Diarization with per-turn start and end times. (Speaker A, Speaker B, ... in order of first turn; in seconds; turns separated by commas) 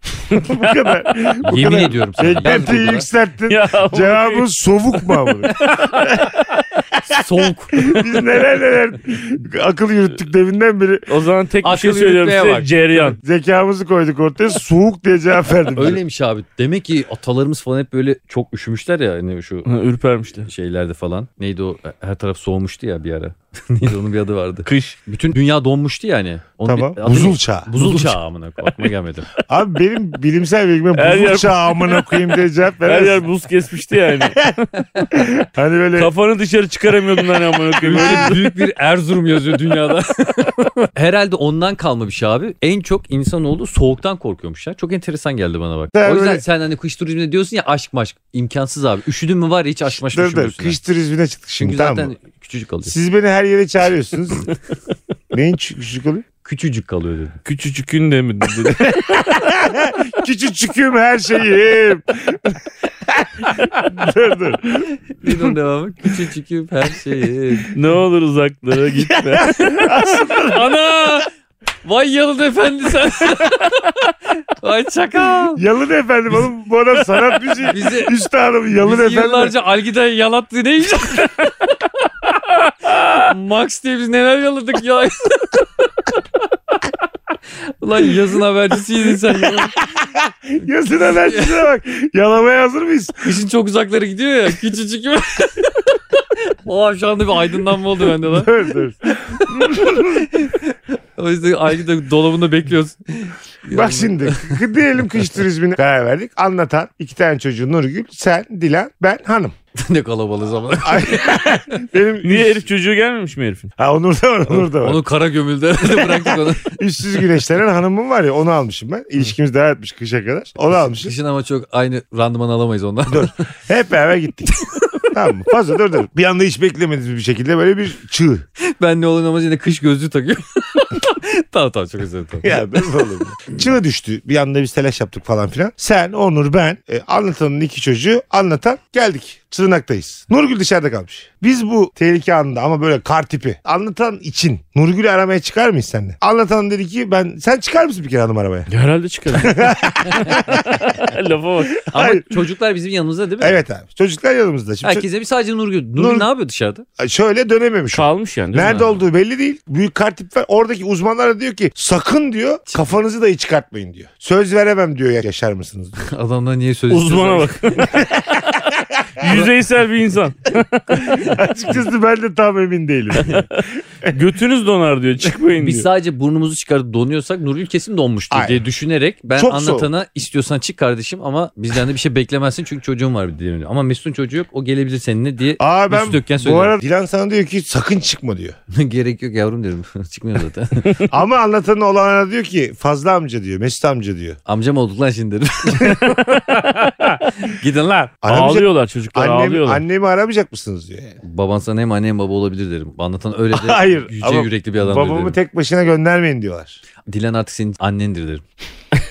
Speaker A: 0.3-0.9, Speaker B: 0.3-11.1, Speaker C: 1.4-3.1, Speaker A: 3.5-4.5, Speaker A: 5.0-5.8, Speaker C: 7.1-8.0, Speaker A: 11.1-13.2, Speaker C: 11.6-12.7, Speaker B: 13.0-16.0, Speaker C: 15.7-19.7, Speaker A: 19.7-20.5, Speaker C: 20.4-29.3, Speaker A: 24.7-25.0, Speaker B: 26.7-28.0, Speaker B: 29.5-33.2, Speaker A: 30.9-32.3, Speaker A: 32.9-34.5, Speaker B: 34.2-34.5, Speaker B: 35.1-36.1, Speaker A: 36.0-38.6, Speaker B: 37.8-38.4, Speaker C: 37.8-50.8, Speaker B: 45.9-46.4, Speaker B: 50.0-52.1, Speaker C: 51.6-53.0, Speaker B: 52.9-54.5, Speaker B: 55.3-56.2, Speaker C: 56.4-57.4, Speaker A: 57.5-59.4, Speaker B: 58.7-65.5, Speaker C: 65.2-67.7, Speaker A: 67.7-70.0, Speaker B: 69.0-70.7, Speaker C: 70.4-71.3, Speaker C: 71.8-75.6, Speaker B: 75.5-79.6, Speaker C: 77.6-78.1, Speaker C: 78.8-81.5, Speaker C: 82.9-85.7, Speaker C: 87.6-89.8, Speaker B: 89.4-93.3, Speaker C: 91.2-91.6, Speaker C: 93.2-104.7, Speaker B: 98.0-100.3, Speaker B: 103.7-109.5, Speaker C: 109.8-111.4, Speaker B: 110.8-112.7, Speaker A: 112.2-113.7, Speaker B: 113.8-115.0, Speaker C: 114.5-116.8, Speaker B: 115.8-121.1, Speaker C: 121.0-123.3, Speaker B: 123.1-128.4, Speaker C: 128.6-132.9, Speaker B: 132.4-148.7, Speaker A: 148.7-151.8, Speaker B: 149.3-151.0, Speaker B: 151.8-152.4, Speaker C: 151.9-153.6, Speaker B: 153.4-155.1, Speaker C: 154.8-156.9, Speaker B: 156.0-156.3, Speaker B: 157.0-166.1, Speaker A: 157.9-158.9, Speaker C: 162.7-162.9, Speaker C: 166.0-167.6, Speaker A: 166.9-168.0, Speaker B: 167.9-169.5, Speaker A: 169.2-171.3, Speaker B: 171.0-173.5, Speaker A: 173.2-175.9, Speaker C: 175.6-186.8, Speaker B: 178.3-178.6, Speaker B: 179.3-179.9, Speaker B: 185.6-188.6, Speaker C: 188.7-191.0, Speaker B: 191.1-194.4, Speaker C: 194.5-196.4, Speaker B: 195.7-196.8, Speaker C: 197.4-198.2, Speaker B: 198.2-201.2, Speaker A: 198.3-199.8, Speaker C: 201.2-205.4, Speaker B: 203.5-206.8, Speaker C: 207.1-208.4